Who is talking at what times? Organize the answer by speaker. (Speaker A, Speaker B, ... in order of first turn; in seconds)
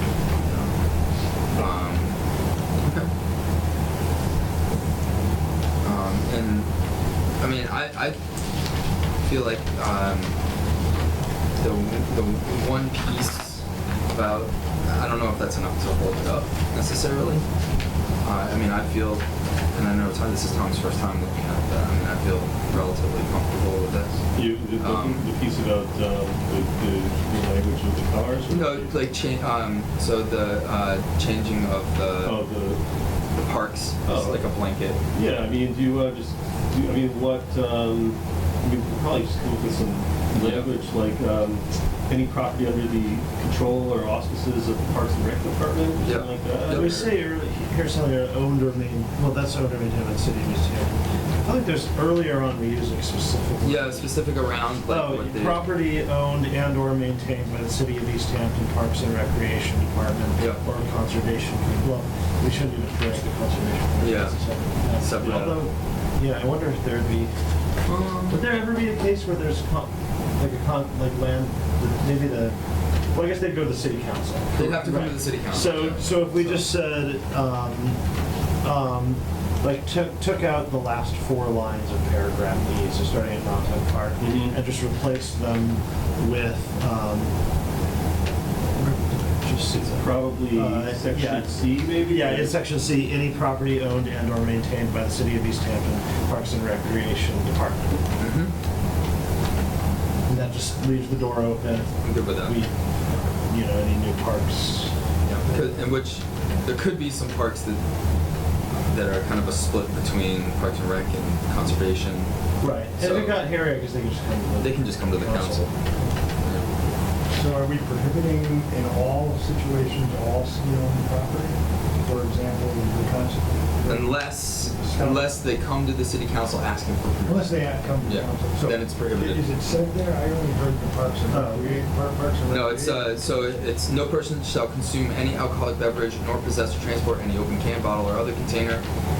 Speaker A: 0.4-0.8, 1.5-2.1, 2.8-3.1, 5.8-6.7, 7.4-8.2, 9.2-10.3, 11.6-17.4, 18.2-25.3, 28.5-32.4, 33.4-35.0, 40.4-40.7, 46.0-47.0, 53.6-55.7, 64.0-64.4, 65.0-65.6, 67.8-68.4, 74.5-76.6, 98.2-98.5, 102.0-102.6, 105.2-107.8, 108.9-112.3, 113.0-113.4, 114.6-115.7, 116.4-116.7, 123.9-129.5, 132.5-138.8
Speaker B: 24.3-29.0, 32.2-32.8, 34.0-34.5, 35.1-47.1, 65.2-65.5, 84.2-84.5, 89.7-92.6
Speaker C: 46.7-54.2, 54.8-67.3, 68.3-72.5, 73.1-78.0, 78.6-87.3, 88.8-98.0, 100.3-102.7, 103.5-105.8, 112.6-115.7, 131.3-131.8
Speaker D: 117.3-125.3, 127.2-133.1